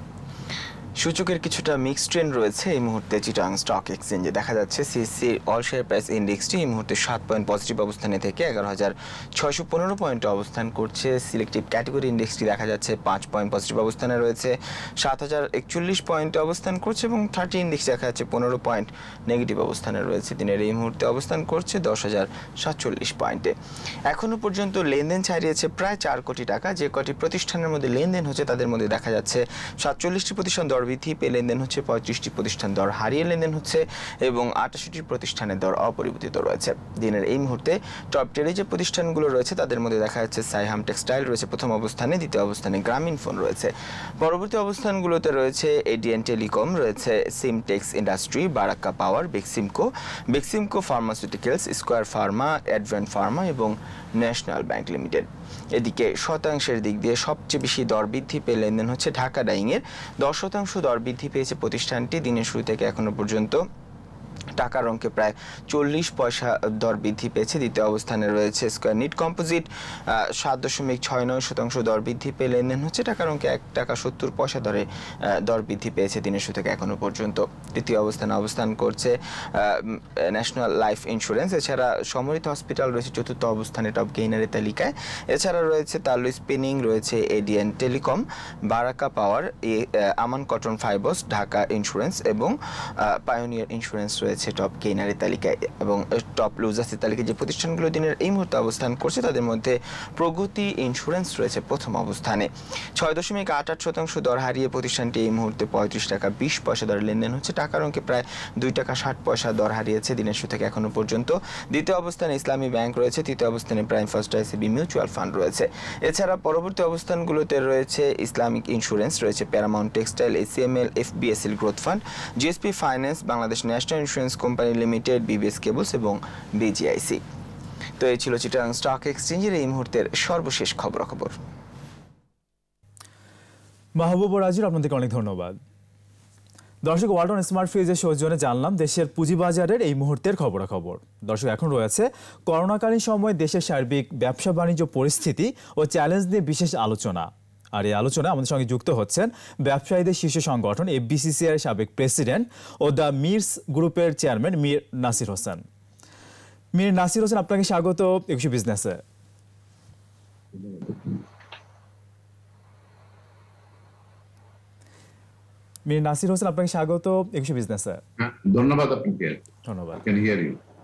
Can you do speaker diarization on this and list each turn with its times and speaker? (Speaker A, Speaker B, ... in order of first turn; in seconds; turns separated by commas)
Speaker A: 1.0-23.5, Speaker A: 24.1-63.6, Speaker A: 64.6-69.7, Speaker A: 70.4-74.8, Speaker A: 75.5-92.5, Speaker A: 93.2-102.5, Speaker A: 103.0-127.2, Speaker A: 128.0-131.4, Speaker B: 134.0-135.6, Speaker B: 136.8-155.6, Speaker B: 156.7-159.0, Speaker C: 160.6-161.2, Speaker B: 165.9-168.0, Speaker C: 168.2-169.5, Speaker B: 169.7-170.0, Speaker C: 170.0-170.6